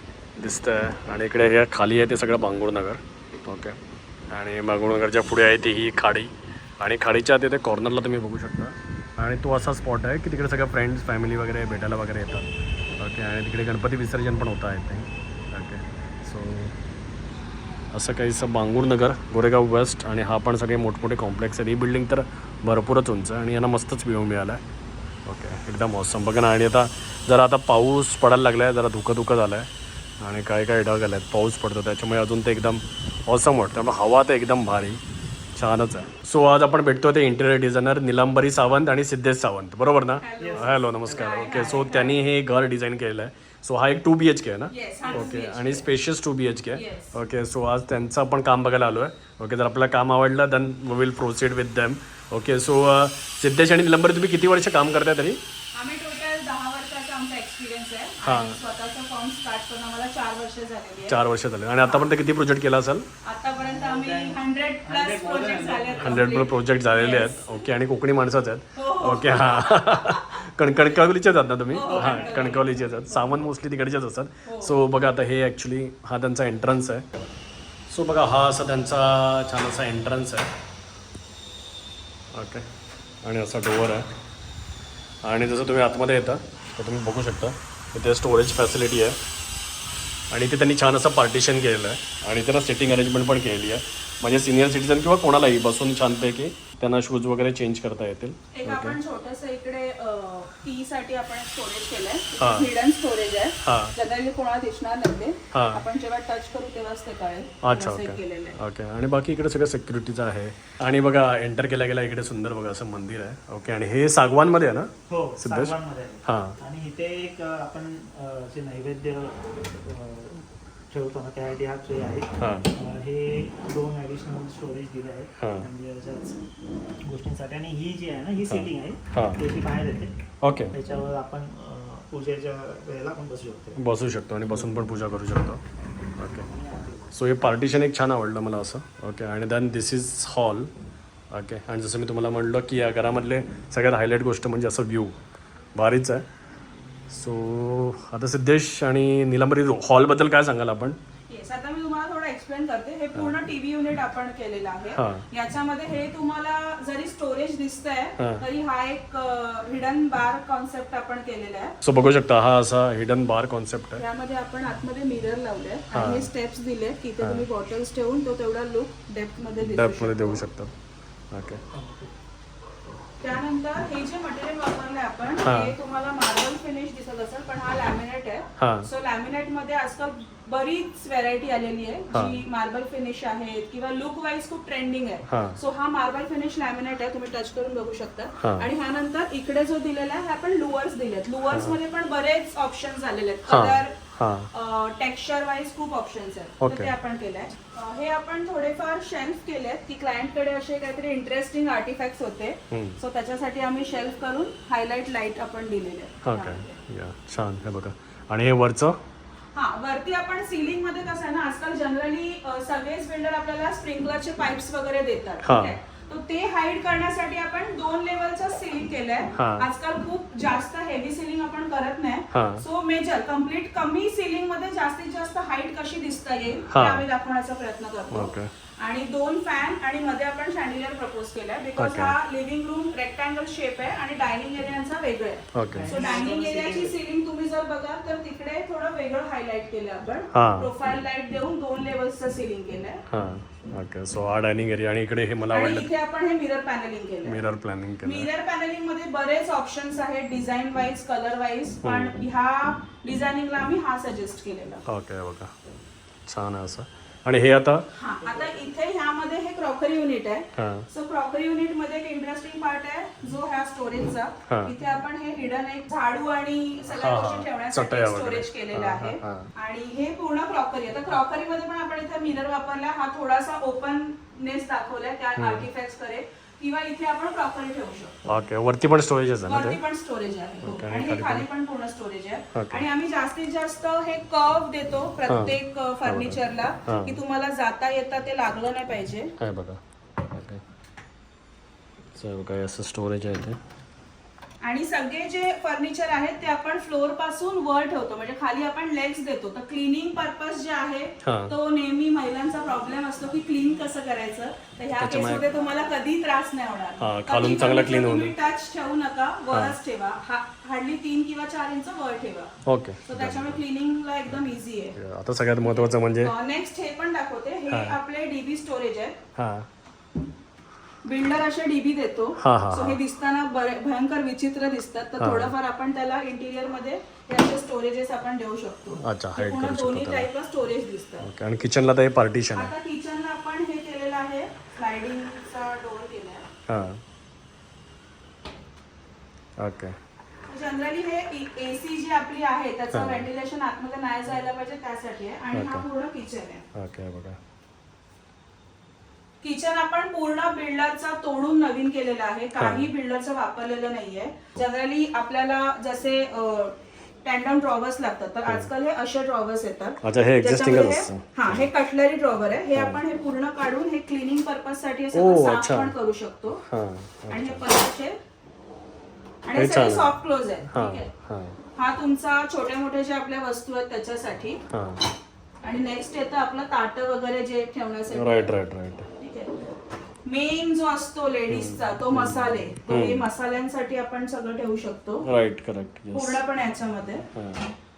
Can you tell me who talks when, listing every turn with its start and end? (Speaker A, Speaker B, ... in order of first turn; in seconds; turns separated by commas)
Speaker A: 0.3-3.8, Speaker A: 4.3-16.7, Speaker A: 17.9-24.6, Speaker A: 25.2-35.0, Speaker A: 35.5-55.4, Speaker B: 40.2-42.2, Speaker C: 40.4-40.9, Speaker B: 44.7-45.9, Speaker B: 46.7-47.2, Speaker B: 55.7-61.2, Speaker A: 58.2-58.6, Speaker A: 61.1-63.0, Speaker B: 61.8-62.1, Speaker B: 63.2-67.7, Speaker C: 63.6-66.3, Speaker A: 66.0-77.1, Speaker B: 68.8-71.0, Speaker B: 71.7-73.4, Speaker C: 71.8-72.7, Speaker B: 74.4-74.8, Speaker A: 77.9-80.5, Speaker A: 82.3-82.7, Speaker A: 83.2-84.1, Speaker A: 85.2-89.2, Speaker A: 90.3-99.0, Speaker B: 98.5-108.6, Speaker A: 102.4-102.7, Speaker A: 103.6-103.9, Speaker A: 105.5-105.8, Speaker A: 107.6-116.6, Speaker C: 115.1-126.4, Speaker A: 122.4-122.7, Speaker A: 125.4-125.7, Speaker C: 127.0-133.8, Speaker A: 128.5-129.4, Speaker A: 130.4-130.7, Speaker A: 133.8-135.6, Speaker C: 134.5-134.8, Speaker A: 136.2-136.5, Speaker C: 136.2-137.1, Speaker A: 137.1-140.7, Speaker A: 141.3-145.2, Speaker A: 145.7-146.2, Speaker A: 147.1-151.0, Speaker B: 151.3-161.7, Speaker A: 153.1-153.4, Speaker A: 154.9-155.2, Speaker A: 158.2-158.4, Speaker A: 161.8-164.0, Speaker B: 164.0-170.4, Speaker A: 165.9-166.3, Speaker A: 169.6-170.7, Speaker A: 171.3-171.6, Speaker C: 171.7-172.1, Speaker B: 173.2-194.0, Speaker A: 175.4-175.7, Speaker A: 178.6-178.9, Speaker A: 182.1-182.4, Speaker A: 185.3-185.6, Speaker A: 188.4-188.7, Speaker A: 191.5-191.8, Speaker A: 193.4-194.5, Speaker B: 194.5-206.8, Speaker A: 196.6-196.9, Speaker A: 202.7-203.0, Speaker A: 206.2-209.0, Speaker B: 209.5-243.0, Speaker A: 215.4-215.8, Speaker A: 219.4-219.7, Speaker A: 222.3-222.6, Speaker A: 226.7-227.0, Speaker A: 228.1-228.5, Speaker A: 231.8-232.2, Speaker A: 235.5-236.0, Speaker C: 235.7-237.0, Speaker A: 240.3-240.7, Speaker A: 243.1-245.9, Speaker B: 245.5-247.5, Speaker A: 247.2-248.3, Speaker B: 248.0-254.8, Speaker A: 251.8-252.2, Speaker A: 254.9-255.5, Speaker A: 256.2-257.8, Speaker B: 257.9-278.1, Speaker A: 260.5-260.9, Speaker A: 264.5-264.7, Speaker A: 266.9-269.5, Speaker A: 275.4-275.6, Speaker A: 278.2-279.8, Speaker B: 279.4-289.3, Speaker A: 280.6-281.5, Speaker A: 282.5-282.8, Speaker A: 285.3-287.2, Speaker A: 289.4-290.6, Speaker A: 292.1-293.6, Speaker B: 294.6-312.5, Speaker A: 301.2-301.5, Speaker A: 304.9-305.5, Speaker A: 307.0-308.3, Speaker A: 309.5-309.8, Speaker A: 312.6-313.6, Speaker B: 313.1-315.0, Speaker A: 314.9-316.3, Speaker B: 316.1-319.2, Speaker A: 317.7-317.9, Speaker A: 319.4-319.7, Speaker B: 321.0-331.3, Speaker A: 322.4-323.0, Speaker A: 325.2-325.5, Speaker A: 329.0-330.3, Speaker A: 331.2-332.7, Speaker B: 332.5-336.5, Speaker A: 336.7-337.0, Speaker A: 339.6-339.9, Speaker B: 340.5-346.6, Speaker A: 342.9-343.3, Speaker A: 345.5-345.9, Speaker A: 346.7-347.4, Speaker B: 349.4-366.6, Speaker A: 352.6-352.9, Speaker A: 360.0-361.7, Speaker A: 362.7-363.0, Speaker A: 365.1-365.9, Speaker A: 366.6-367.6, Speaker B: 367.3-368.2, Speaker B: 369.4-371.1, Speaker A: 369.6-370.1, Speaker A: 370.7-371.6, Speaker B: 371.8-374.6, Speaker A: 374.7-375.0, Speaker B: 375.6-378.6, Speaker A: 378.1-379.1, Speaker B: 379.2-379.7, Speaker B: 380.2-385.3, Speaker A: 381.5-383.3, Speaker A: 385.2-386.4, Speaker B: 386.1-387.3, Speaker A: 387.3-387.6